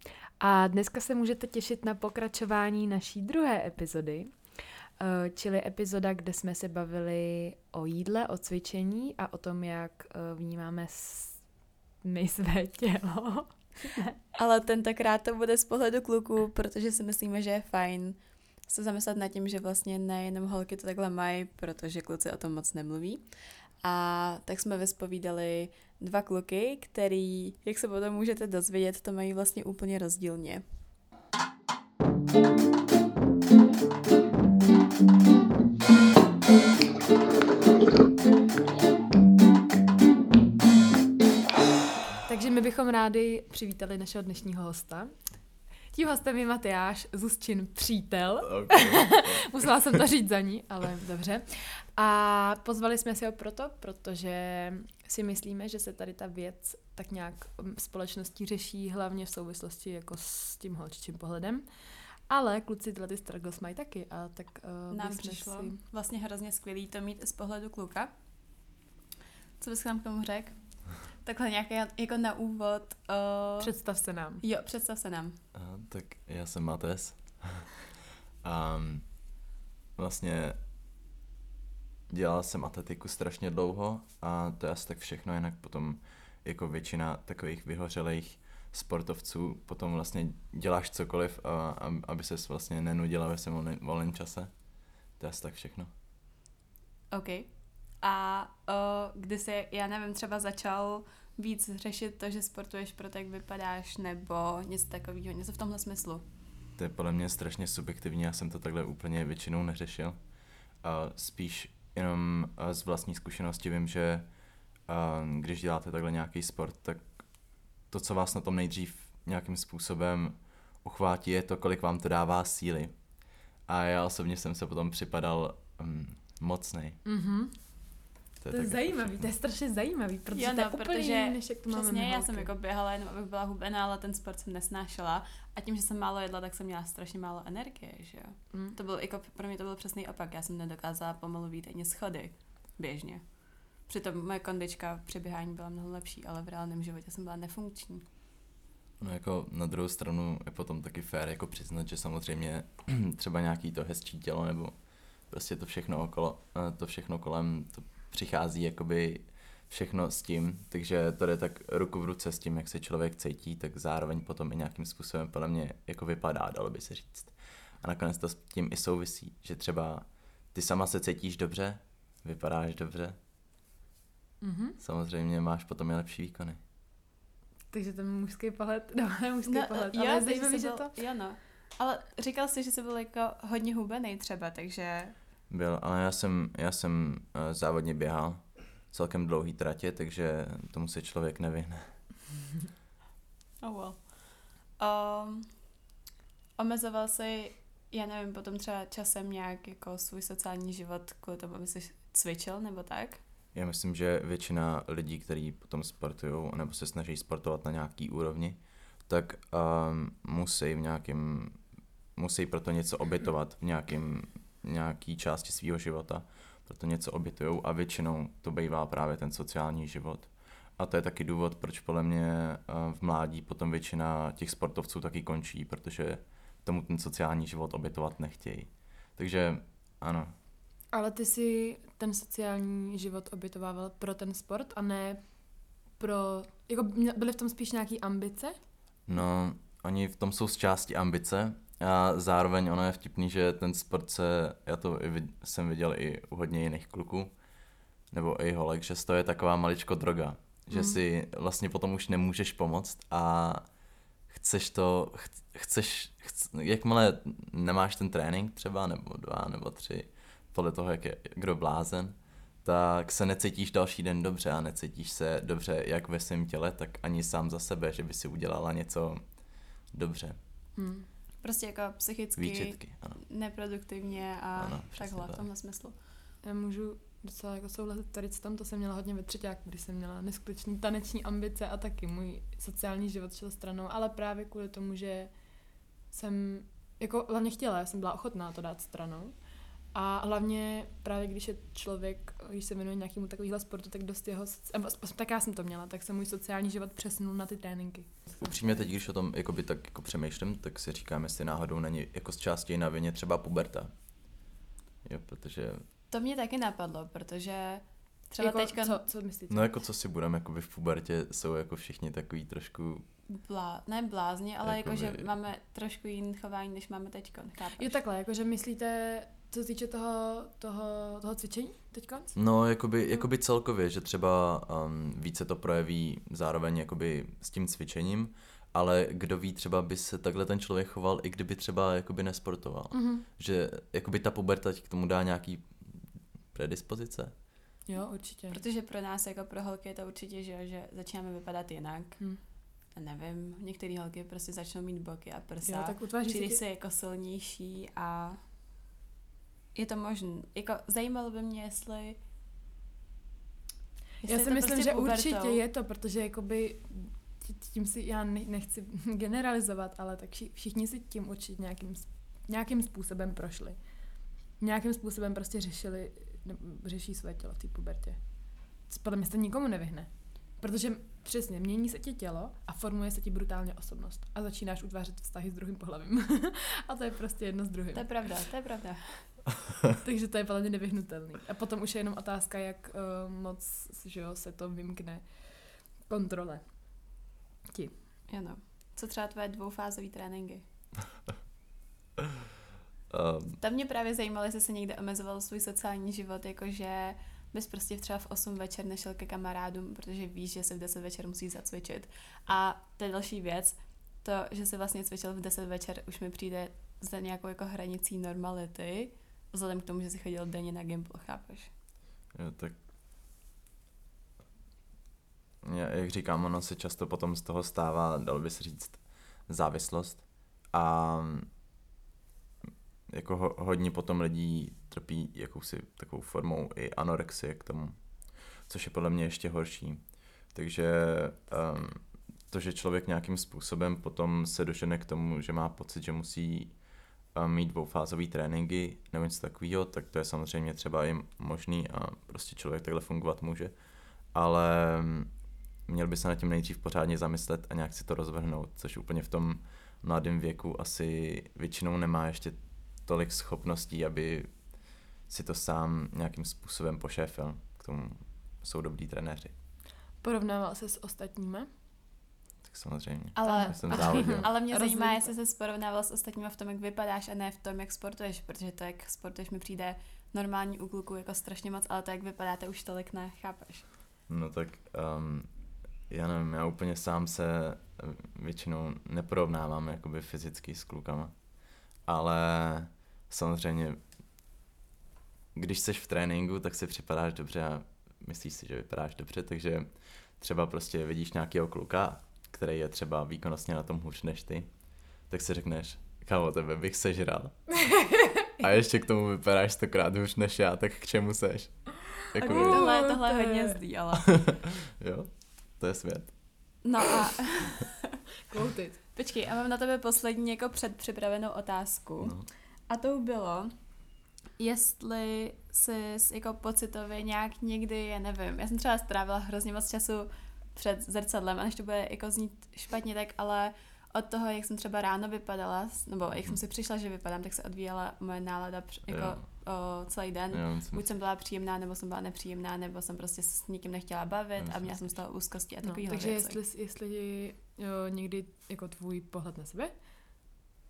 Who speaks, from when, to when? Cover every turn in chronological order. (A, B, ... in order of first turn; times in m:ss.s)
0:00.4-0:14.2 A
0:14.4-0:30.6 B
0:42.2-1:05.8 A
0:48.4-0:50.0 C
1:04.9-1:08.6 B
1:09.6-1:15.4 B
1:13.6-1:14.4 A
1:15.5-1:17.8 C
1:18.4-1:20.6 C
1:22.1-1:35.9 C
1:37.1-1:46.3 B
1:46.8-2:07.0 C
2:07.0-2:12.5 A
2:08.4-2:09.3 C
2:10.3-2:28.1 B
2:18.5-2:18.8 A
2:29.0-2:53.2 C
2:54.4-2:54.8 A
2:54.8-2:56.6 C
2:57.7-3:01.0 A
2:59.5-3:05.2 B
3:05.5-3:12.0 C
3:13.6-3:15.8 B
3:16.6-3:23.2 B
3:23.5-3:50.3 C
3:50.9-3:59.2 A
3:59.1-4:30.4 C
4:10.7-4:11.0 A
4:30.8-4:31.1 A
4:31.4-4:36.0 B
4:32.4-4:33.2 C
4:34.6-4:35.5 C
4:36.4-4:58.8 A
4:58.4-5:04.5 C
5:05.0-5:05.8 C
5:06.1-5:09.1 B
5:08.4-5:09.7 A
5:09.5-5:13.1 C
5:13.3-5:18.0 B
5:14.6-5:15.3 C
5:17.8-5:22.4 A
5:22.4-5:37.4 C
5:32.9-5:33.2 A
5:37.9-5:38.6 A
5:38.5-5:48.4 B
5:45.6-5:46.6 A
5:49.7-5:52.2 B
5:54.2-6:18.4 A
5:54.2-5:55.6 B
6:17.9-6:19.4 B
6:20.0-6:27.9 A
6:28.3-6:30.6 B
6:33.1-6:33.6 C
6:33.6-6:51.7 B
6:52.3-6:52.8 C
6:55.6-7:01.6 C
7:03.1-7:39.6 C
7:40.2-7:41.7 A
7:42.6-7:44.5 C
7:43.4-7:45.3 A
7:43.4-7:53.9 B
7:54.3-8:04.2 C
8:05.6-8:23.1 C
8:17.9-8:18.5 A
8:22.4-8:23.8 A
8:22.4-8:24.5 B
8:24.2-8:26.9 C
8:26.8-8:27.9 B
8:28.5-8:29.0 A
8:29.1-8:56.6 B
8:32.2-8:32.5 C
8:46.3-8:46.6 C
8:49.1-8:51.1 C
8:54.6-8:55.2 C
8:55.8-9:00.6 A